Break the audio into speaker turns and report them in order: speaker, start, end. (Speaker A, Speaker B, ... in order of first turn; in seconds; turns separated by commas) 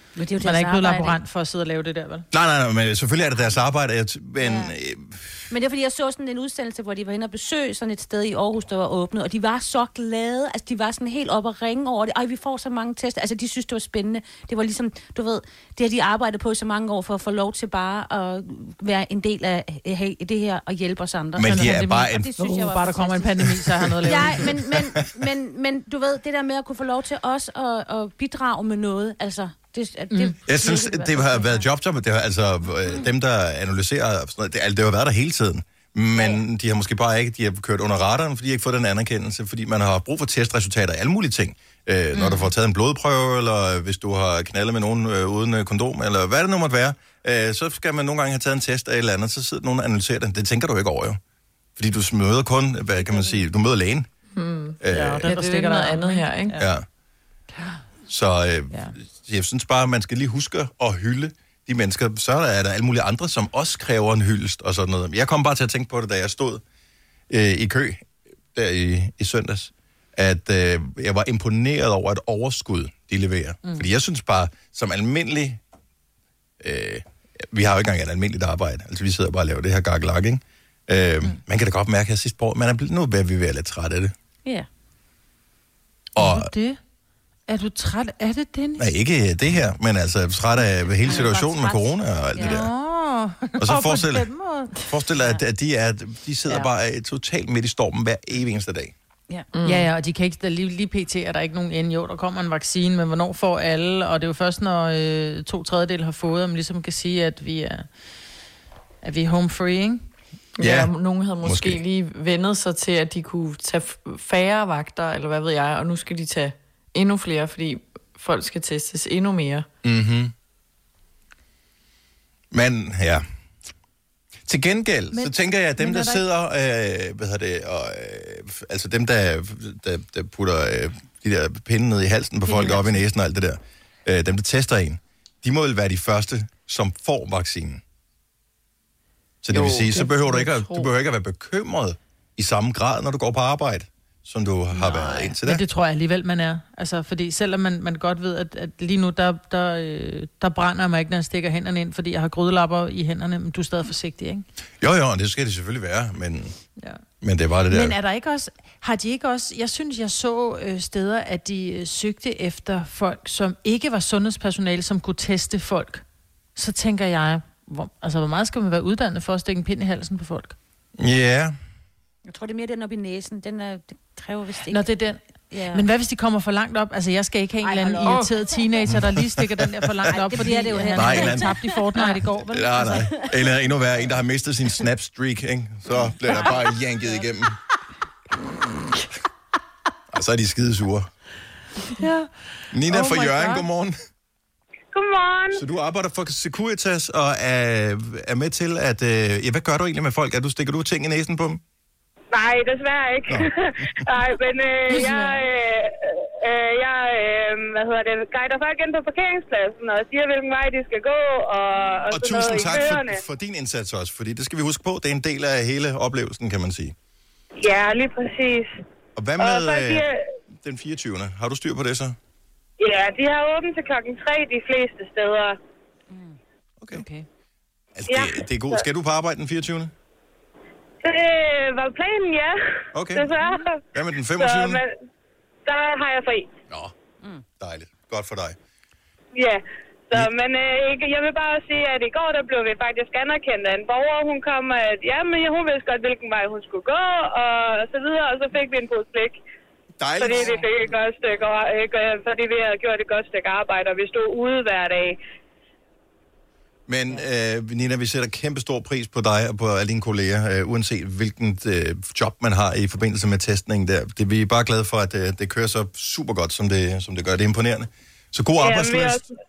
Speaker A: 0.1-1.2, Speaker B: 0.4-2.2, Speaker C: 2.3-5.3, Speaker A: 4.4-4.7, Speaker A: 5.5-31.6, Speaker C: 21.4-22.3, Speaker B: 21.5-24.5, Speaker C: 24.0-24.9, Speaker C: 30.5-51.2, Speaker A: 42.2-42.4, Speaker C: 51.8-54.1, Speaker D: 54.3-56.6, Speaker C: 54.8-55.3, Speaker B: 54.9-56.6, Speaker C: 56.6-56.9, Speaker C: 58.1-66.6, Speaker C: 67.3-75.6, Speaker C: 76.6-84.1, Speaker C: 86.2-86.5, Speaker B: 86.2-86.8, Speaker B: 87.5-88.9, Speaker C: 88.8-92.7, Speaker A: 91.0-92.6, Speaker B: 92.4-94.8, Speaker C: 93.6-94.3, Speaker C: 94.9-98.9, Speaker D: 99.5-99.9, Speaker B: 99.6-107.9, Speaker B: 109.0-110.1, Speaker D: 110.6-119.7, Speaker C: 110.6-110.9, Speaker C: 111.4-111.8, Speaker C: 119.8-120.3, Speaker C: 122.5-123.2, Speaker C: 124.5-137.8, Speaker B: 125.1-126.2, Speaker B: 132.4-133.0, Speaker C: 139.4-145.6, Speaker D: 139.5-140.9, Speaker B: 144.8-154.4, Speaker C: 154.8-156.6, Speaker C: 157.2-157.9, Speaker B: 157.7-166.0, Speaker B: 166.6-170.6, Speaker C: 171.0-171.6, Speaker A: 172.2-175.0, Speaker B: 174.7-175.2, Speaker A: 175.5-175.8, Speaker B: 175.7-183.1, Speaker A: 177.6-178.6, Speaker C: 178.9-180.1, Speaker A: 180.1-183.4, Speaker C: 180.9-181.6, Speaker C: 182.5-187.6, Speaker A: 186.3-186.6, Speaker C: 190.1-191.1, Speaker B: 192.0-192.3, Speaker C: 192.7-193.9, Speaker B: 192.9-193.7, Speaker E: 194.9-195.6, Speaker C: 195.5-201.6, Speaker E: 202.3-213.2, Speaker C: 203.3-204.1, Speaker B: 204.9-205.4, Speaker C: 212.1-216.9, Speaker E: 217.6-218.7, Speaker C: 219.2-222.2, Speaker E: 219.4-220.2, Speaker E: 222.8-225.6, Speaker A: 226.1-226.4, Speaker B: 226.9-227.2, Speaker C: 227.9-229.9, Speaker E: 228.1-228.8, Speaker E: 231.0-232.6, Speaker C: 232.9-233.3, Speaker E: 233.1-233.8, Speaker C: 233.9-234.8, Speaker E: 234.4-234.9, Speaker E: 235.7-236.5, Speaker C: 237.6-238.6, Speaker E: 239.3-249.4, Speaker C: 250.0-250.6, Speaker E: 250.2-255.2, Speaker C: 256.9-269.2, Speaker E: 268.6-269.3